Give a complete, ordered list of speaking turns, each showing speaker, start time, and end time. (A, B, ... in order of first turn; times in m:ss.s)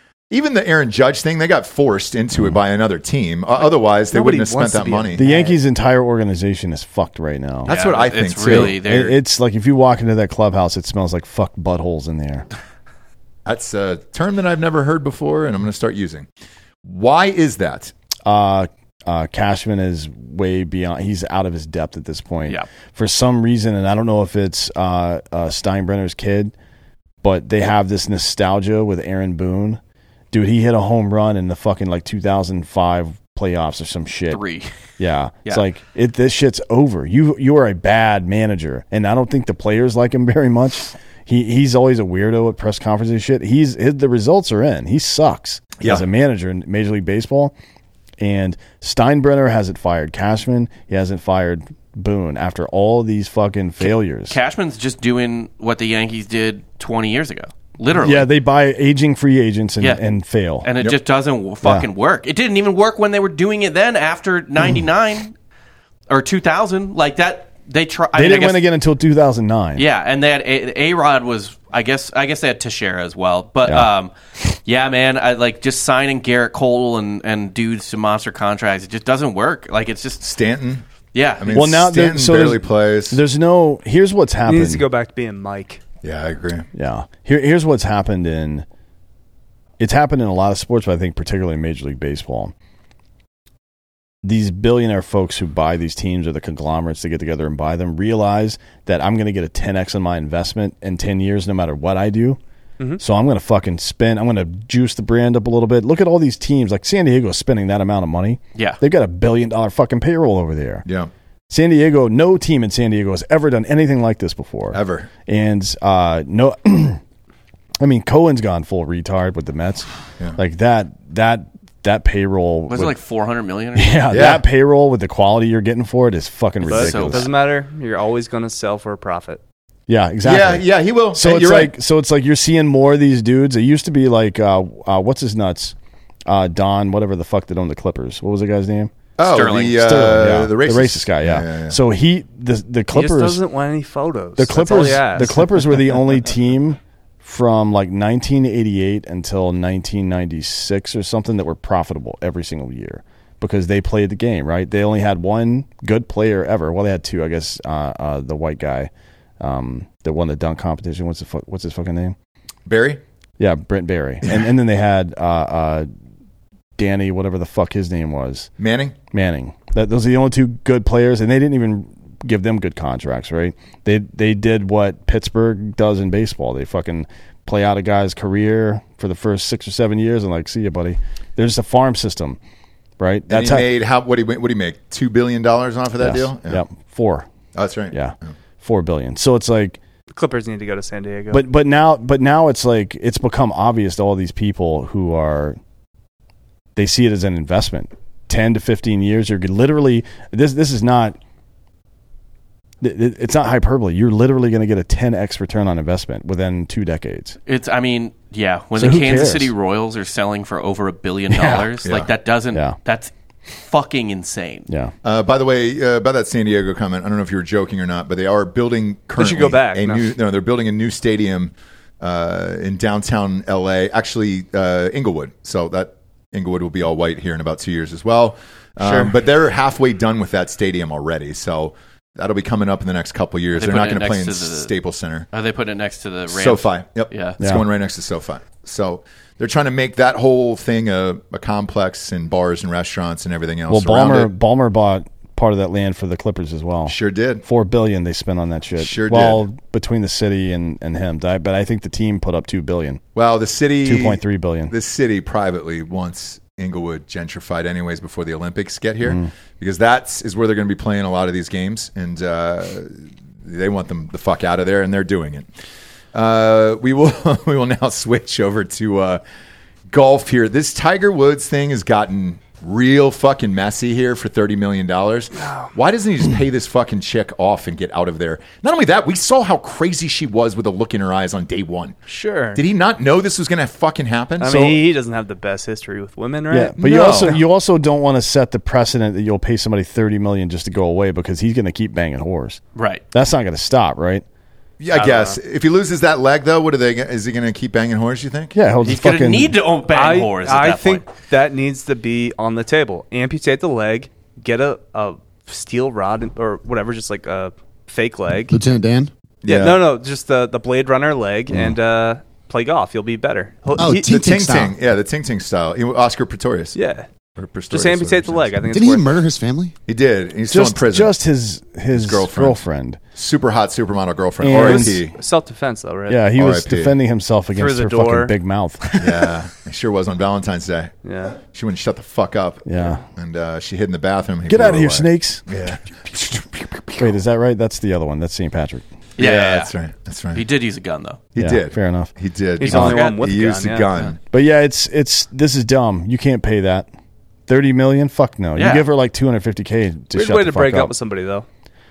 0:00.3-0:05.2 A
0:04.1-0:05.6 B
0:05.2-0:07.7 C
0:07.7-0:08.8 A
0:07.7-0:09.2 D
0:08.4-0:12.5 C
0:13.5-0:16.3 A
0:16.8-0:17.9 A
0:18.3-0:26.5 C
0:27.2-0:29.8 C
0:30.3-0:34.4 C
0:34.3-0:34.7 D
0:35.0-0:47.5 C
0:48.2-0:54.4 C
0:53.8-0:58.3 D
0:58.0-1:00.7 C
1:00.6-1:05.4 D
1:06.1-1:08.6 D
1:08.1-1:09.8 C
1:09.8-1:14.1 D
1:13.7-1:13.9 C
1:14.6-1:20.2 D
1:20.2-1:20.8 A
1:21.1-1:21.6 D
1:21.4-1:23.2 A
1:21.5-1:24.8 C
1:24.5-1:25.8 B
1:26.0-1:26.7 A
1:26.7-1:28.6 C
1:29.8-1:32.5 C
1:34.2-1:42.4 C
1:43.0-1:50.9 C
1:51.5-1:57.0 C
1:54.7-1:55.1 A
1:57.8-2:03.0 C
2:02.7-2:04.2 D
2:03.8-2:07.3 C
2:04.1-2:04.4 A
2:06.6-2:07.3 D
2:06.7-2:09.4 B
2:09.9-2:15.8 C
2:10.2-2:11.8 A
2:16.3-2:18.9 C
2:19.2-2:21.8 A
2:19.2-2:19.9 D
2:19.8-2:23.4 C
2:22.9-2:25.8 B
2:24.4-2:42.2 C
2:42.7-2:43.0 A
2:43.4-2:45.9 C
2:46.8-2:48.5 C
2:48.6-2:49.0 A
2:49.1-3:02.4 C
3:03.0-3:03.7 C
3:03.3-3:06.6 A
3:06.0-3:07.3 C
3:07.6-3:08.3 A
3:07.9-3:09.8 C
3:10.1-3:11.5 B
3:11.3-3:15.6 C
3:16.8-3:21.2 C
3:22.8-3:27.4 C
3:27.5-3:34.7 D
3:28.8-3:29.5 C
3:31.3-3:31.6 C
3:31.8-3:32.1 A
3:35.0-3:55.3 A
3:39.2-3:40.1 B
3:48.8-3:49.2 B
3:53.6-3:54.7 D
3:55.3-3:57.4 D
3:56.3-4:04.3 A
4:03.7-4:13.0 C
4:06.9-4:07.4 A
4:08.8-4:09.4 A
4:13.2-4:25.5 A
4:13.8-4:14.7 C
4:19.0-4:19.3 C
4:26.1-4:29.2 A
4:29.9-4:42.0 A
4:35.4-4:35.7 B
4:42.1-4:42.6 B
4:42.6-4:44.8 A
4:44.4-4:47.4 B
4:46.5-4:52.6 C
4:46.8-4:47.4 A
4:52.8-4:53.0 D
4:53.1-4:54.2 C
4:54.8-4:58.6 A
4:54.9-4:55.4 B
4:58.6-4:59.6 C
4:58.8-5:01.1 D
4:59.9-5:08.6 B
5:08.5-5:09.1 E
5:09.4-5:09.9 A
5:09.5-5:14.1 B
5:13.8-5:14.8 E
5:13.9-5:16.8 A
5:16.8-5:17.1 B
5:17.4-5:18.6 A
5:17.7-5:19.1 B
5:18.7-5:19.7 E
5:19.9-5:21.2 A
5:20.5-5:23.0 C
5:21.9-5:22.6 A
5:23.2-5:25.2 A
5:24.4-5:25.0 C
5:24.5-5:26.3 B
5:26.1-5:29.0 C
5:26.4-5:27.0 A
5:27.6-5:28.3 B
5:29.0-5:37.2 A
5:31.0-5:31.4 B
5:32.7-5:33.0 C
5:34.5-5:35.4 C
5:37.0-5:38.8 C
5:39.2-5:39.7 D
5:39.2-5:40.4 A
5:40.3-5:41.2 D
5:41.4-5:44.2 A
5:41.4-5:42.1 C
5:42.6-5:43.9 B
5:42.7-5:43.0 C
5:42.8-5:43.2 D
5:44.3-5:46.9 C
5:47.5-5:50.9 C
5:48.6-5:48.9 D
5:50.1-5:51.5 B